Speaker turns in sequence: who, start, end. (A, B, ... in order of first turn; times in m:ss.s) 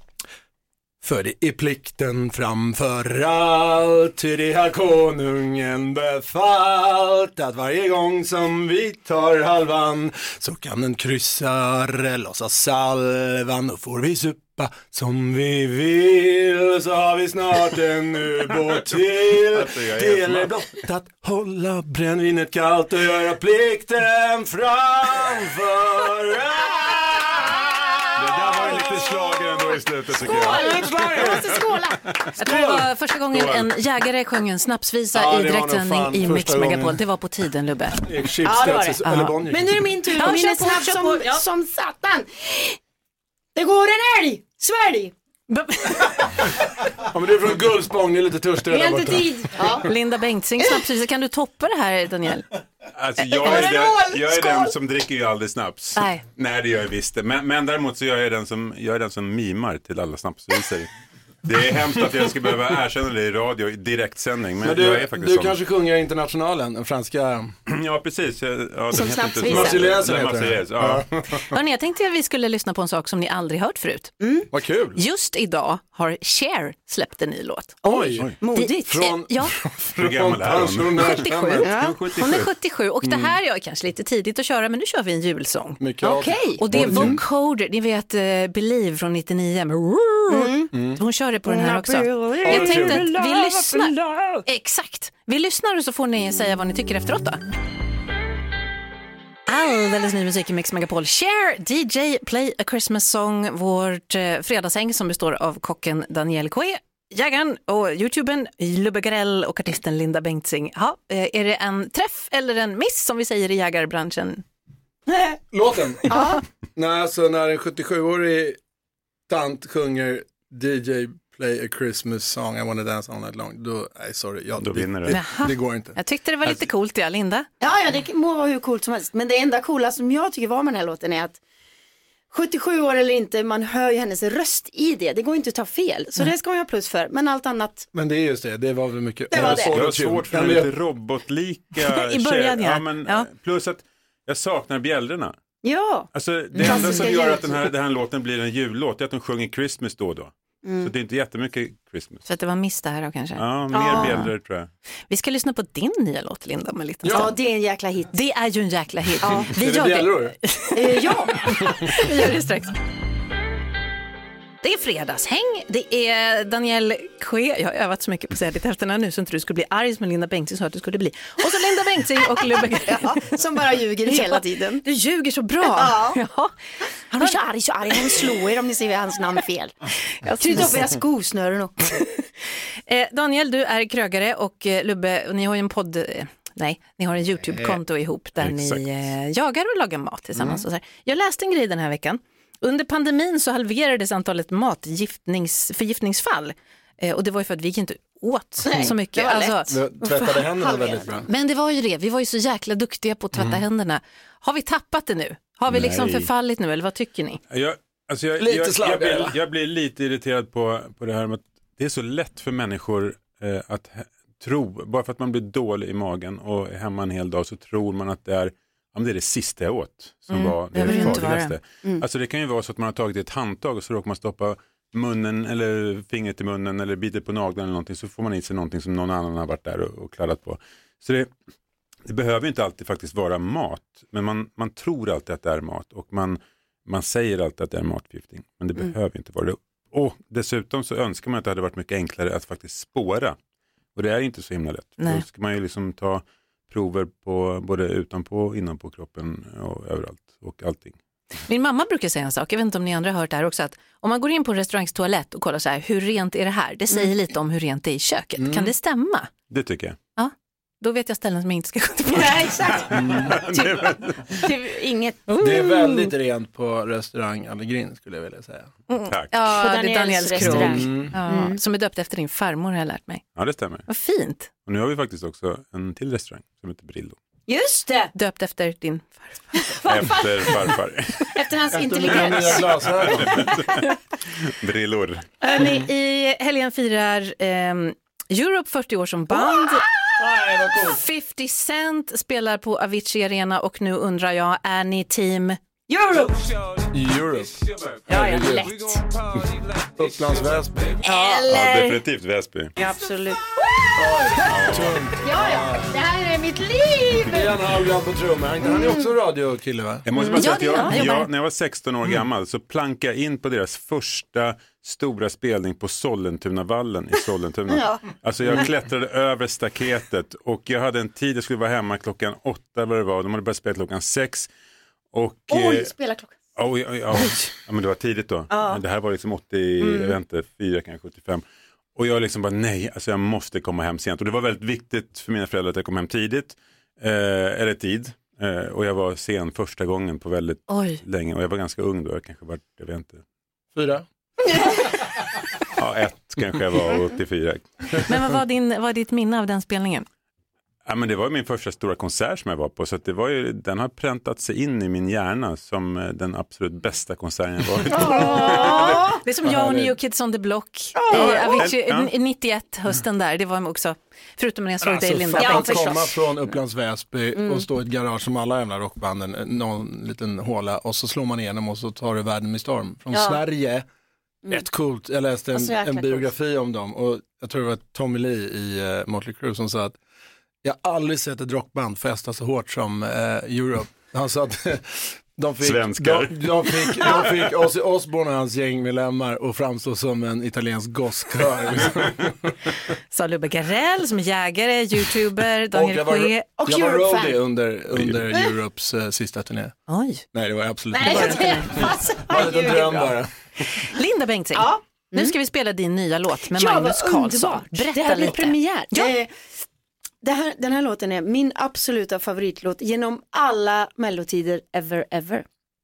0:01.0-0:28.2 A
0:19.2-0:20.9 B
0:28.2-0:32.3 B
0:28.5-0:32.1 C
0:30.2-0:31.6 A
0:32.4-0:38.1 D
0:32.4-0:32.9 A
0:33.3-0:33.7 B
0:35.1-0:37.0 A
0:38.0-0:39.8 A
0:38.4-0:42.8 C
0:39.1-0:39.3 D
0:40.1-0:41.4 D
0:43.6-0:45.1 C
0:45.5-0:46.4 D
0:47.0-0:49.7 A
0:48.7-0:49.9 C
0:49.8-0:52.5 D
0:53.0-1:00.9 B
0:53.4-0:54.8 C
0:56.0-0:56.2 D
1:01.4-1:05.6 B
1:04.6-1:07.6 A
1:07.7-1:11.2 B
1:08.9-1:10.0 C
1:09.4-1:11.6 A
1:11.5-1:14.1 D
1:14.2-1:14.5 C
1:14.5-1:15.0 A
1:15.0-1:17.8 D
1:17.8-1:21.8 A
1:17.9-1:19.0 C
1:18.5-1:19.5 D
1:20.0-1:22.5 B
1:21.1-1:25.8 D
1:21.6-1:22.0 C
1:23.0-1:23.3 A
1:25.8-1:27.2 A
1:26.0-1:27.2 C
1:26.6-1:37.4 D
1:30.3-1:30.7 C
1:30.7-1:31.0 A
1:31.4-1:34.4 C
1:32.4-1:33.1 A
1:39.5-1:54.4 D
1:55.5-1:56.2 A
1:56.1-1:56.4 C
1:56.8-1:58.6 A
1:59.3-2:06.0 A
2:04.6-2:05.2 B
2:05.1-2:07.5 D
2:07.6-2:11.4 C
2:12.3-2:17.9 C
2:17.9-2:20.8 A
2:19.3-2:19.7 C
2:19.4-2:25.4 B
2:21.8-2:23.3 D
2:25.6-2:27.6 C
2:26.1-2:32.2 B
2:26.6-2:27.0 D
2:30.6-2:30.9 C
2:32.3-2:34.3 D
2:33.4-2:34.7 B
2:33.7-2:34.3 C
2:35.1-2:37.4 D
2:37.0-2:37.4 A
2:37.1-2:38.2 C
2:38.1-2:42.8 D
2:39.2-2:39.5 C
2:39.2-2:40.4 A
2:40.7-2:41.4 C
2:44.6-2:53.2 D
2:52.8-2:54.8 C
2:54.1-2:56.5 D
2:55.6-2:56.2 C
2:57.1-3:01.8 C
3:00.4-3:00.8 D
3:02.9-3:19.8 D
3:08.4-3:09.1 B
3:10.4-3:10.6 A
3:18.6-3:21.2 C
3:19.7-3:21.3 A
3:21.2-3:27.4 D
3:25.7-3:26.3 B
3:27.5-3:51.3 B
3:28.4-3:29.4 A
3:40.3-3:41.6 D
3:40.9-3:41.2 C
3:52.1-4:03.4 B
4:04.0-4:11.0 B
4:05.0-4:05.2 D
4:11.5-4:19.3 D
4:18.4-4:18.7 A
4:19.5-4:20.0 B
4:20.2-4:22.9 D
4:22.1-4:26.0 C
4:22.9-4:23.4 A
4:23.3-4:24.4 B
4:25.3-4:25.8 D
4:25.4-4:28.7 A
4:28.9-4:33.2 D
4:29.1-4:29.3 B
4:29.5-4:31.6 C
4:30.4-4:31.2 A
4:33.4-4:33.9 B
4:33.9-4:34.5 D
4:34.6-4:37.2 B
4:37.5-4:38.1 C
4:38.1-4:39.8 D
4:39.7-4:40.5 C
4:39.9-4:41.2 B
4:41.3-4:43.6 C
4:41.7-4:43.4 A
4:43.2-4:43.9 B
4:44.4-4:45.3 B
4:45.4-4:45.8 C
4:45.4-4:49.9 D
4:49.3-4:49.8 C
4:50.2-4:51.0 A
4:50.7-4:55.6 D
4:55.9-4:56.6 C
4:56.9-4:59.0 A
4:58.1-4:59.0 C
4:59.8-5:01.0 A
5:01.0-5:01.4 D
5:01.0-5:02.0 C
5:01.5-5:02.7 B
5:02.8-5:07.6 C
5:03.9-5:06.0 A
5:04.4-5:05.0 B
5:07.2-5:10.1 A
5:08.6-5:09.1 C
5:10.1-5:24.5 B
5:10.2-5:11.1 C
5:10.2-5:11.3 D
5:17.7-5:18.0 C
5:25.1-5:25.9 B
5:25.5-5:26.4 C
5:26.6-5:31.4 B
5:28.5-5:28.8 C
5:29.8-5:30.2 C
5:32.0-5:43.2 B
5:40.7-5:41.0 D
5:43.8-5:44.0 A
5:45.7-5:48.1 B
5:48.1-5:50.1 D
5:50.9-5:59.1 B
5:57.9-5:59.2 C
5:58.0-6:06.0 D
5:59.4-6:00.0 A
6:01.0-6:01.7 C
6:01.1-6:02.1 B
6:04.8-6:13.9 A
6:05.4-6:06.5 C
6:07.3-6:07.7 C
6:13.1-6:13.4 C
6:14.5-6:20.0 A
6:15.5-6:16.3 C
6:20.6-6:32.6 A
6:25.6-6:27.2 B
6:33.1-6:36.5 D
6:35.7-6:39.8 A
6:36.6-6:37.4 C
6:37.9-6:38.2 B
6:39.9-6:40.2 D
6:40.3-6:43.3 A
6:40.9-6:43.2 C
6:41.0-6:41.8 D
6:43.6-6:49.1 D
6:44.5-6:45.3 C
6:46.5-6:49.4 C
6:50.2-6:55.4 C